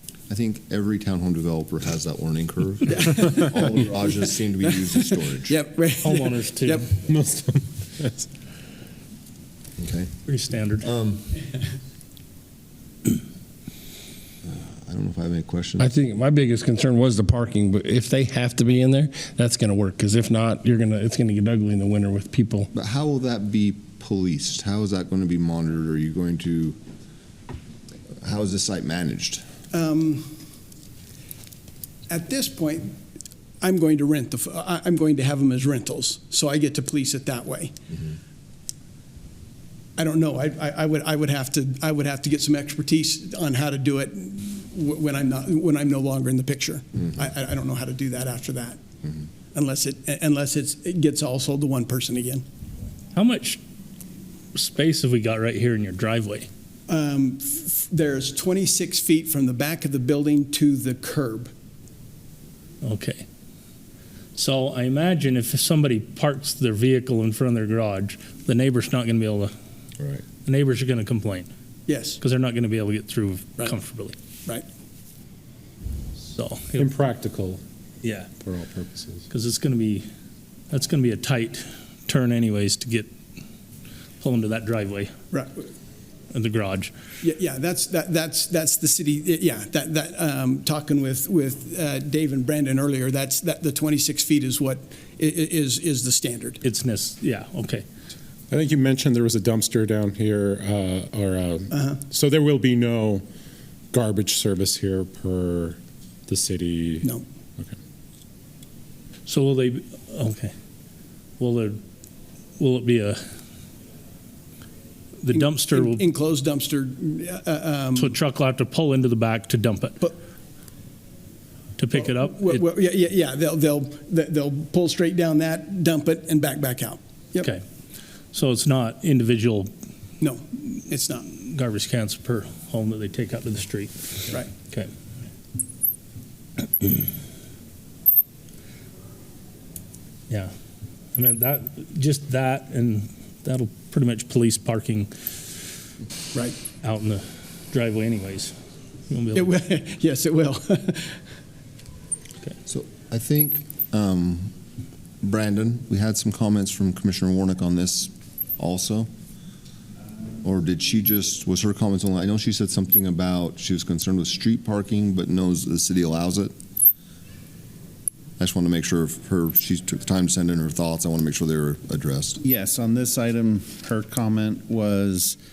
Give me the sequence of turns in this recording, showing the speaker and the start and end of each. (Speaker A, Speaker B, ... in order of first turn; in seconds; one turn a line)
Speaker A: 0.3-5.6
Speaker B: 5.4-6.8
Speaker C: 6.0-6.9
Speaker D: 7.1-8.2
Speaker A: 9.8-10.1
Speaker C: 10.3-10.9
Speaker A: 10.8-11.3
Speaker A: 14.4-15.9
Speaker E: 15.8-22.7
Speaker A: 22.7-26.8
Speaker A: 28.2-29.4
Speaker B: 29.7-30.3
Speaker B: 32.1-33.0
Speaker B: 33.6-37.7
Speaker B: 40.0-48.8
Speaker B: 49.5-52.4
Speaker C: 53.1-53.6
Speaker C: 54.5-56.5
Speaker B: 56.9-61.5
Speaker C: 62.8-63.2
Speaker C: 64.3-69.5
Speaker C: 70.4-71.5
Speaker B: 71.9-72.2
Speaker C: 72.2-74.1
Speaker C: 76.3-76.9
Speaker D: 76.8-77.6
Speaker C: 78.0-78.3
Speaker D: 78.4-79.2
Speaker C: 79.3-80.0
Speaker C: 80.7-83.1
Speaker C: 84.2-85.1
Speaker B: 85.3-85.7
Speaker C: 86.3-86.9
Speaker B: 87.2-96.6
Speaker C: 96.6-97.8
Speaker D: 98.5-103.2
Speaker B: 101.7-102.0
Speaker D: 103.9-107.7
Speaker C: 109.3-110.5
Speaker C: 111.4-111.8
Speaker C: 112.6-113.2
Speaker C: 115.2-116.0
Speaker B: 115.3-118.1
Speaker C: 118.0-120.0
Speaker C: 121.8-122.6
Speaker B: 121.9-127.5
Speaker C: 128.3-129.7
Speaker B: 130.2-131.3
Speaker C: 131.3-134.9
Speaker C: 141.2-145.1
Speaker C: 146.8-148.5
Speaker C: 149.1-149.5
Speaker B: 149.3-151.2
Speaker A: 152.7-154.5
Speaker A: 155.2-159.1
Speaker A: 160.4-166.5
Speaker A: 168.4-172.4
Speaker F: 172.4-175.4